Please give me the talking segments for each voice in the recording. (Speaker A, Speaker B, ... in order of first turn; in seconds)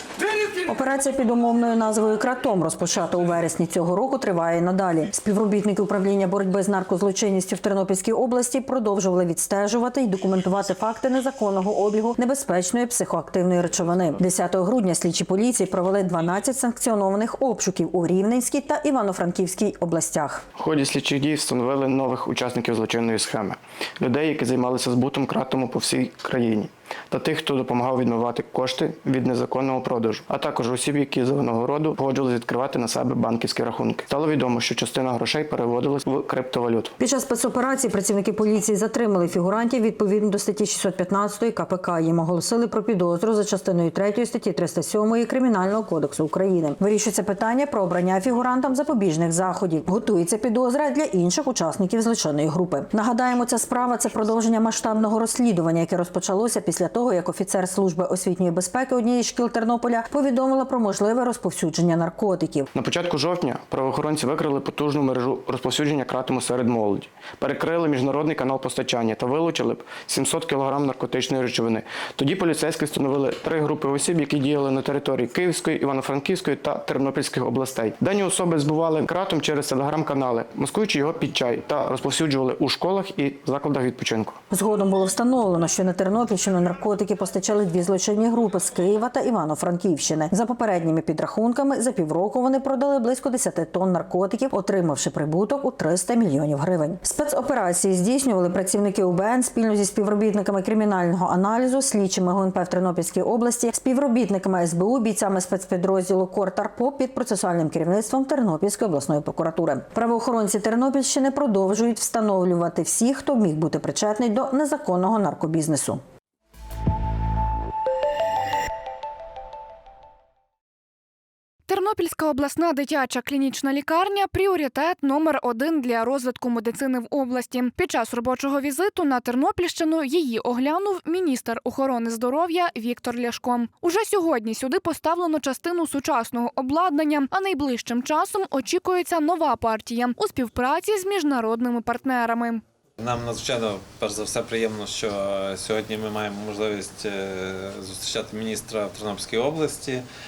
Speaker A: 0.6-20.4, 37.0-62.7, 84.5-116.0
Speaker B: 20.6-37.0, 62.7-84.4
Speaker C: 121.7-142.6
Speaker D: 143.0-150.0